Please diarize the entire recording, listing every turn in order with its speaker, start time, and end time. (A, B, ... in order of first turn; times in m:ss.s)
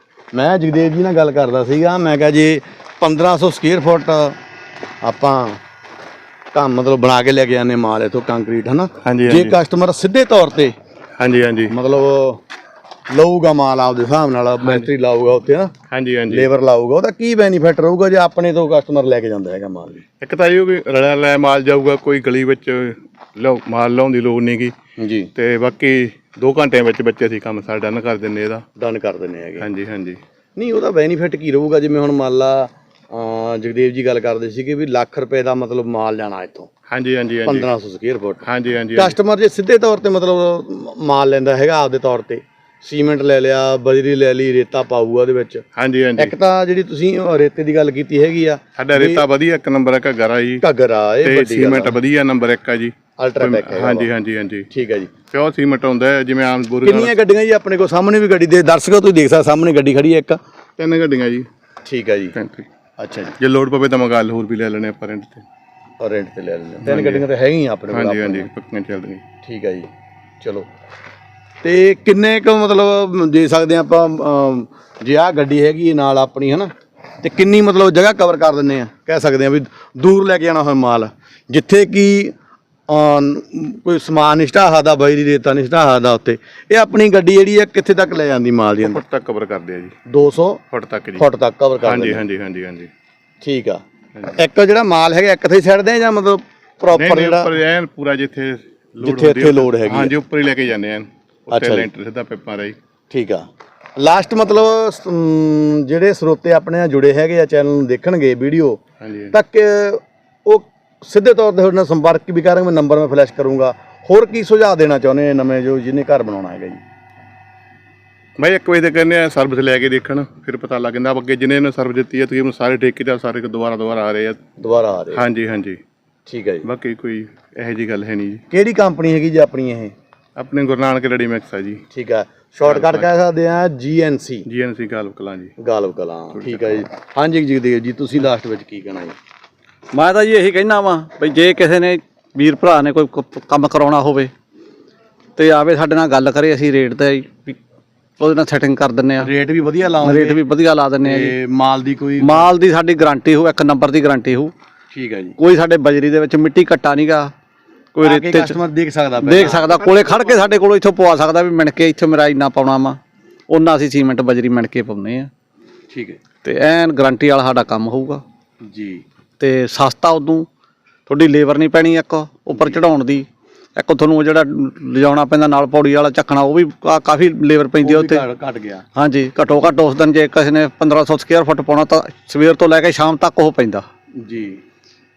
0:00.3-0:04.4 A
0:05.0-0:05.6 A
0:06.5-0:10.8 A
0:09.0-0:09.6 B
0:11.2-0:11.7 B
0:11.7-0:12.4 A
0:13.1-0:15.7 A
0:15.9-0:16.5 B
0:16.3-0:20.0 A
0:20.2-0:24.7 B
0:25.0-0:25.3 A
0:25.4-0:28.6 B
0:28.8-0:29.6 A
0:29.6-0:30.2 B
0:30.6-0:36.7 A
0:36.9-0:37.7 B
0:37.4-0:38.4 A
0:38.4-0:39.1 B
0:39.0-0:45.6 A
0:45.8-0:46.3 B
0:46.2-0:49.2 A
0:48.8-0:50.6 B
0:50.6-0:52.0 A
0:51.2-0:54.7 B
0:53.2-0:54.1 A
0:54.7-0:55.1 A
0:55.3-0:57.1 B
0:56.8-1:00.4 A
1:00.8-1:01.5 B
1:01.8-1:02.3 A
1:02.3-1:02.7 B
1:03.0-1:03.3 A
1:03.4-1:05.4 B
1:06.0-1:08.5 A
1:06.8-1:07.2 B
1:07.9-1:09.2 B
1:09.4-1:09.9 A
1:10.4-1:10.7 A
1:11.6-1:22.3 A
1:22.9-1:29.0 A
1:28.8-1:29.9 B
1:30.1-1:30.6 A
1:30.7-1:31.2 B
1:31.2-1:32.2 A
1:31.8-1:32.9 B
1:33.4-1:37.5 A
1:36.9-1:42.8 B
1:39.0-1:40.1 A
1:41.5-1:41.9 A
1:43.1-1:48.8 A
1:49.0-1:49.3 B
1:49.3-1:56.8 A
1:58.4-2:04.4 B
2:04.6-2:05.2 A
2:05.1-2:05.8 B
2:06.2-2:06.6 A
2:06.6-2:08.4 B
2:08.5-2:09.9 A
2:10.4-2:11.8 B
2:11.9-2:14.4 A
2:12.7-2:13.0 B
2:14.5-2:15.5 B
2:15.6-2:19.2 A
2:16.4-2:16.8 B
2:19.9-2:24.3 C
2:25.4-2:27.6 C
2:28.2-2:29.3 C
2:29.2-2:30.4 A
2:30.0-2:31.4 C
2:31.0-2:32.5 A
2:32.2-2:34.5 C
2:34.9-2:35.4 A
2:35.4-2:37.3 C
2:37.9-2:38.6 C
2:38.0-2:40.5 A
2:39.2-2:45.3 C
2:45.9-2:46.2 A
2:46.4-2:48.2 C
2:48.6-2:49.0 A
2:49.4-2:50.4 C
2:51.1-2:58.2 C
2:57.8-2:58.8 A
2:59.0-3:03.8 C
3:04.2-3:04.6 A